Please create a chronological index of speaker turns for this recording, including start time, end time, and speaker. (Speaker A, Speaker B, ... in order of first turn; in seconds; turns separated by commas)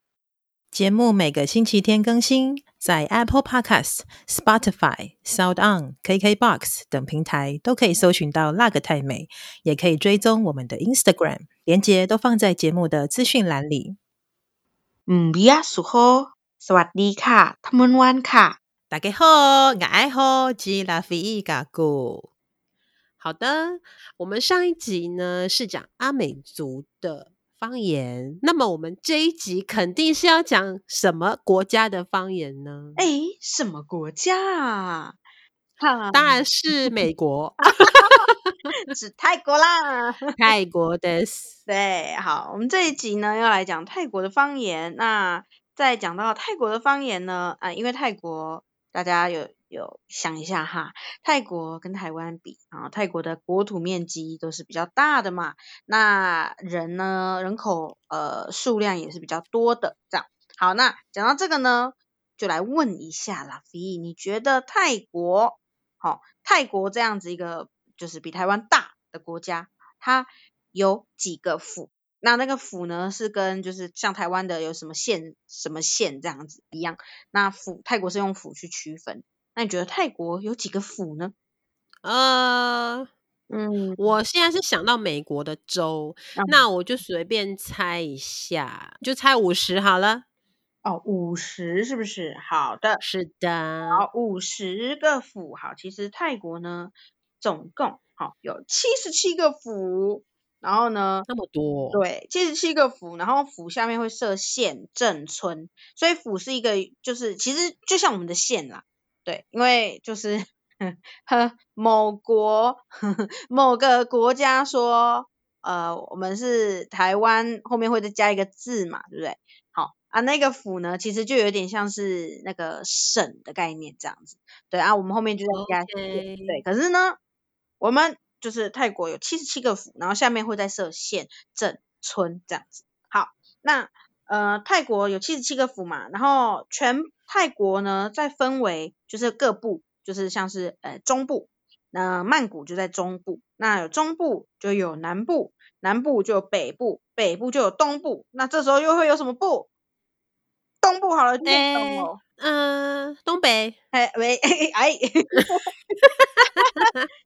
Speaker A: 0.7-14.0, Speaker B: 15.1-18.6, Speaker A: 18.9-22.3, Speaker C: 23.2-33.0, Speaker B: 33.0-35.2, Speaker B: 35.8-37.0, Speaker C: 36.1-38.7, Speaker B: 37.8-38.3, Speaker B: 38.9-40.4, Speaker C: 40.4-41.5, Speaker B: 41.7-81.3, Speaker C: 82.0-83.1, Speaker B: 83.5-84.1, Speaker C: 84.0-90.2, Speaker B: 86.4-86.7, Speaker B: 90.8-93.0, Speaker C: 93.0-94.1, Speaker B: 93.9-101.3, Speaker C: 101.3-102.0, Speaker B: 101.9-127.2, Speaker C: 125.5-126.6, Speaker B: 127.8-149.7, Speaker B: 150.8-152.2, Speaker C: 151.4-153.8, Speaker B: 153.9-156.0, Speaker C: 156.6-156.9, Speaker B: 156.6-156.9